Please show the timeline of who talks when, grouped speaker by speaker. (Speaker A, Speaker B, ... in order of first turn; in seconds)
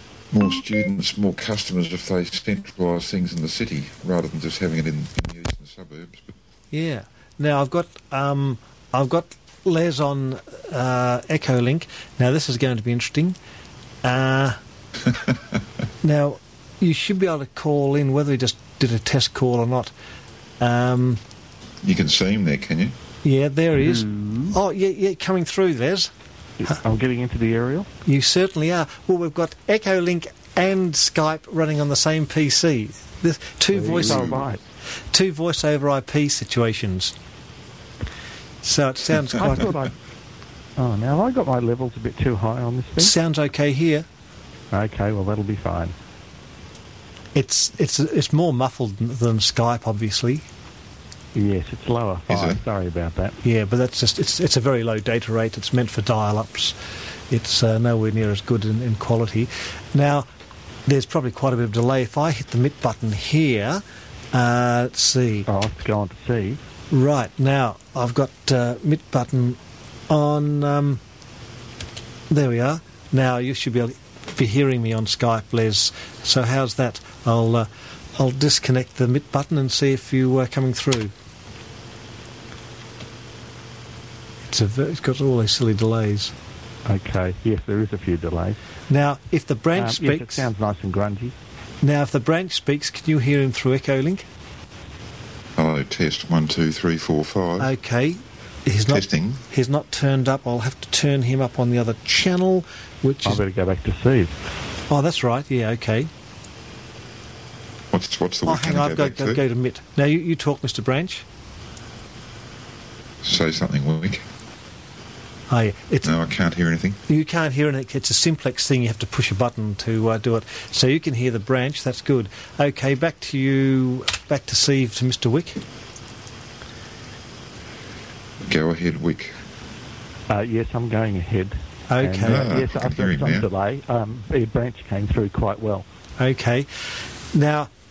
Speaker A: 0.3-6.3, 21.8-22.9, 33.9-34.4, 52.3-52.6, 95.6-97.7, 98.9-99.4, 107.9-109.4, 113.2-114.2, 116.0-117.0, 128.4-129.4, 132.2-133.5
Speaker B: 6.7-13.4, 14.0-14.6, 16.0-19.9, 20.6-21.2, 23.2-26.1, 28.0-34.4, 35.1-37.1, 38.6-39.8, 43.0-44.0, 47.3-50.5, 53.4-56.8, 57.3-60.3, 60.9-65.5, 66.9-71.0, 72.3-81.1, 84.5-86.3, 88.9-90.5, 91.8-94.2, 97.6-103.4, 104.9-106.1, 108.5-111.2, 115.5-116.1, 117.1-125.6, 131.9-132.5, 136.2-136.7, 137.3-137.7
Speaker C: 23.8-24.6, 26.6-27.9, 33.7-34.6, 39.4-39.9, 40.8-43.1, 44.7-45.9, 51.3-53.4, 65.5-66.6, 86.8-88.6, 89.8-91.3, 103.2-104.3, 130.3-135.8